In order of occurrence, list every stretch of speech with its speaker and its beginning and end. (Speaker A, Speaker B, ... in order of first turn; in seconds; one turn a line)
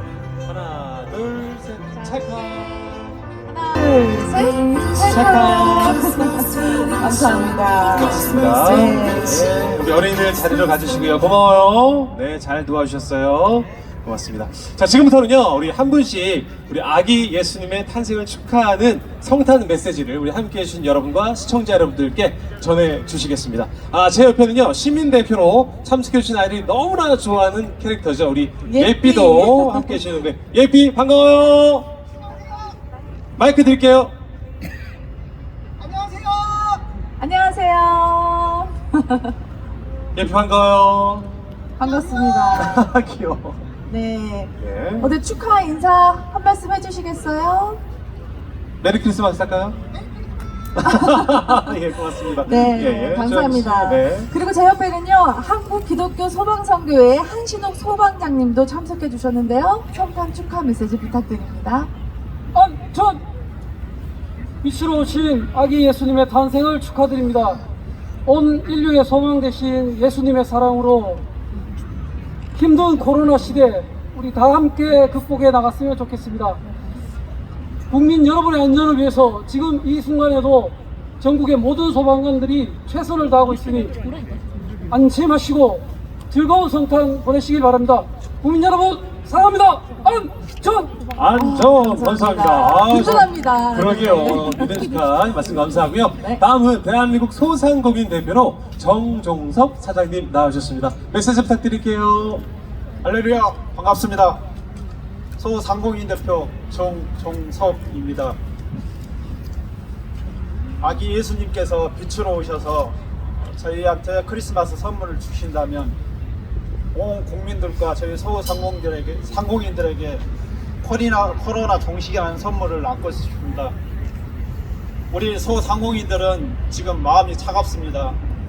Speaker A: 0.5-3.1
Speaker B: 1.9-9.7
Speaker A: 5.0-6.1
Speaker A: 7.0-31.9
Speaker B: 10.3-11.2
Speaker B: 28.6-30.0
Speaker A: 33.4-34.1
Speaker B: 37.2-39.3
Speaker A: 40.1-41.3
Speaker B: 41.8-42.8
Speaker A: 42.2-43.6
Speaker B: 43.9-47.8
Speaker A: 44.6-45.1
Speaker A: 48.8-49.8
Speaker A: 50.8-54.3
Speaker B: 50.9-51.8
Speaker B: 52.4-61.9
Speaker C: 62.5-63.2
Speaker C: 64.6-67.6
Speaker C: 68.3-71.2
Speaker C: 72.5-76.6
Speaker C: 77.9-83.9
Speaker C: 84.9-91.0
Speaker A: 91.2-102.5
Speaker B: 91.3-95.2
Speaker D: 103.1-104.4
Speaker D: 105.4-108.4
Speaker D: 110.8-116.0
Speaker D: 116.9-120.2
Speaker D: 120.8-123.7
Speaker D: 125.1-128.2